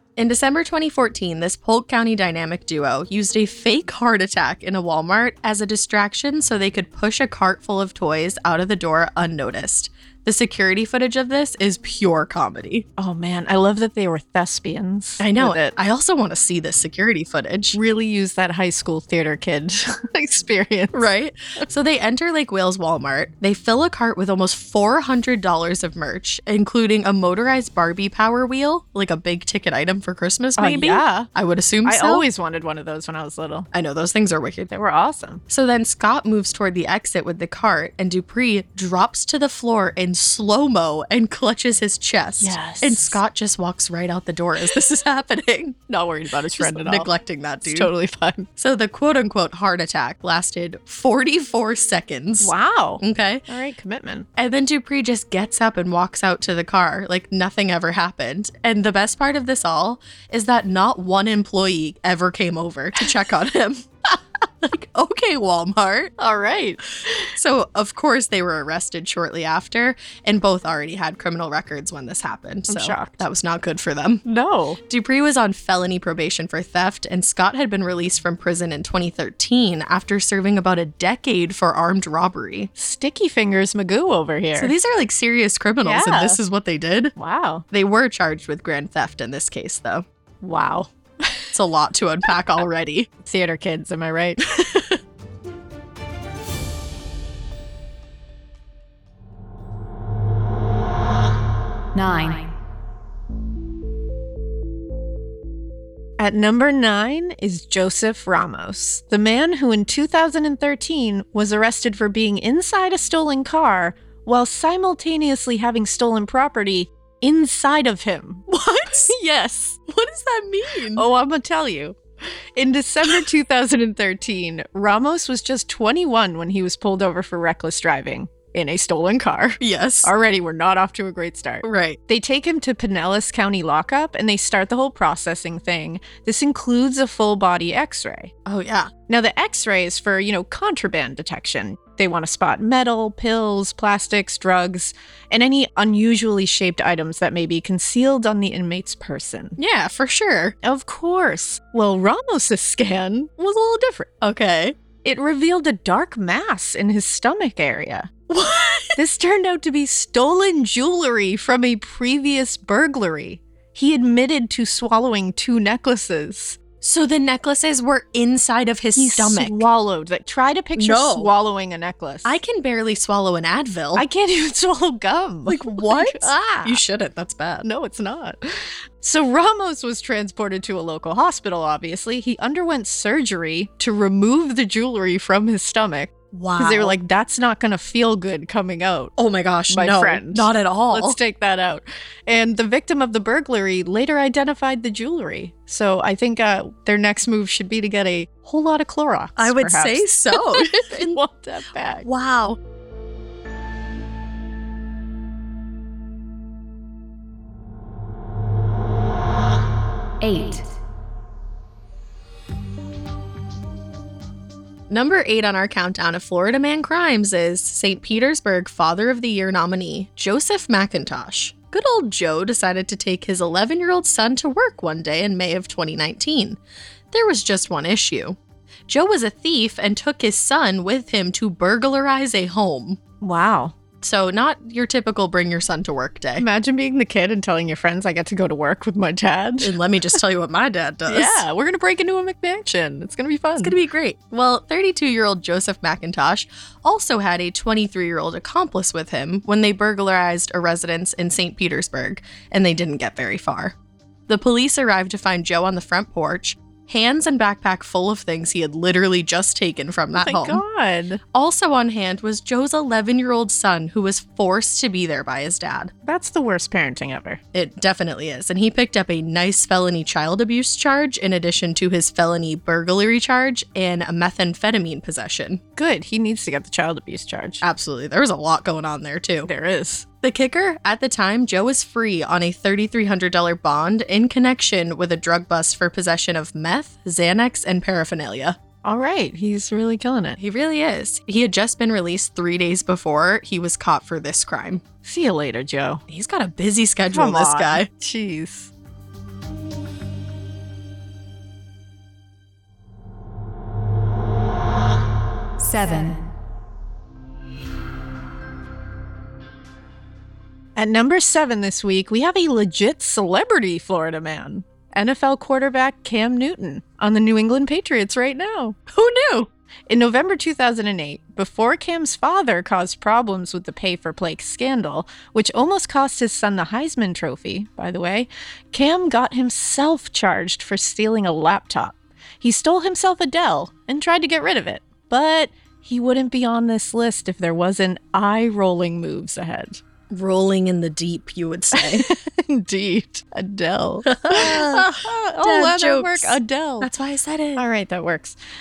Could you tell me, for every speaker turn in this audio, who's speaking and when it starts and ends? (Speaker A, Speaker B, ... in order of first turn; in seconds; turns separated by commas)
Speaker A: 0.2-12.9, Speaker B: 13.0-15.7, Speaker A: 15.2-17.8, Speaker B: 17.7-21.1, Speaker A: 20.9-32.2, Speaker B: 30.6-31.3, Speaker B: 31.9-33.7, Speaker A: 33.7-34.7, Speaker B: 34.7-35.4, Speaker A: 35.5-45.8, Speaker B: 42.4-43.2, Speaker B: 45.9-47.1, Speaker A: 46.6-47.9, Speaker B: 47.6-48.5, Speaker A: 48.6-53.4, Speaker B: 52.4-54.3, Speaker A: 54.4-66.2, Speaker B: 66.2-67.3, Speaker A: 67.2-74.2, Speaker B: 72.7-73.2, Speaker B: 74.2-74.8, Speaker A: 74.9-82.7, Speaker B: 82.8-84.7, Speaker A: 84.6-87.2, Speaker B: 85.8-86.4, Speaker B: 87.2-87.7, Speaker A: 87.7-90.0, Speaker B: 90.4-91.5, Speaker A: 91.5-93.1, Speaker B: 93.2-94.8, Speaker B: 101.9-102.5, Speaker B: 106.2-119.8, Speaker A: 118.5-119.2, Speaker A: 119.9-121.1, Speaker B: 120.9-122.0, Speaker B: 122.6-138.3, Speaker A: 129.6-130.1, Speaker A: 131.6-132.0, Speaker A: 138.5-138.9, Speaker B: 139.1-149.6, Speaker A: 149.6-150.6, Speaker B: 150.6-154.1, Speaker A: 154.2-154.8, Speaker B: 155.0-158.1, Speaker A: 158.3-159.0, Speaker B: 159.0-166.6, Speaker A: 166.8-169.7, Speaker B: 169.0-172.4, Speaker A: 170.8-171.3, Speaker A: 172.2-174.1, Speaker B: 173.9-176.8, Speaker A: 175.5-177.7, Speaker B: 177.6-178.4, Speaker B: 179.0-189.1, Speaker A: 186.3-187.0, Speaker A: 189.2-191.2, Speaker B: 189.7-202.1, Speaker A: 199.4-201.2, Speaker A: 202.0-202.6, Speaker B: 210.2-210.7, Speaker A: 214.9-226.6, Speaker A: 227.1-228.4, Speaker A: 228.9-233.0, Speaker B: 233.2-233.7, Speaker A: 234.0-236.5, Speaker B: 236.4-239.8, Speaker A: 239.6-241.4, Speaker B: 241.1-243.8, Speaker A: 243.6-253.8, Speaker A: 254.3-260.6, Speaker B: 260.2-261.2, Speaker A: 261.3-265.9, Speaker B: 266.1-267.4, Speaker A: 267.5-275.6, Speaker B: 275.8-277.6, Speaker A: 277.6-279.5, Speaker B: 279.5-280.1, Speaker A: 280.2-288.6, Speaker B: 288.8-290.4, Speaker A: 290.4-294.8, Speaker B: 295.0-296.0, Speaker A: 296.1-297.9, Speaker B: 297.1-298.7, Speaker B: 305.6-306.3, Speaker B: 310.8-318.8, Speaker A: 318.9-319.5, Speaker B: 319.9-339.8, Speaker A: 340.1-342.1, Speaker B: 341.7-346.9, Speaker A: 344.1-347.6, Speaker B: 347.6-348.4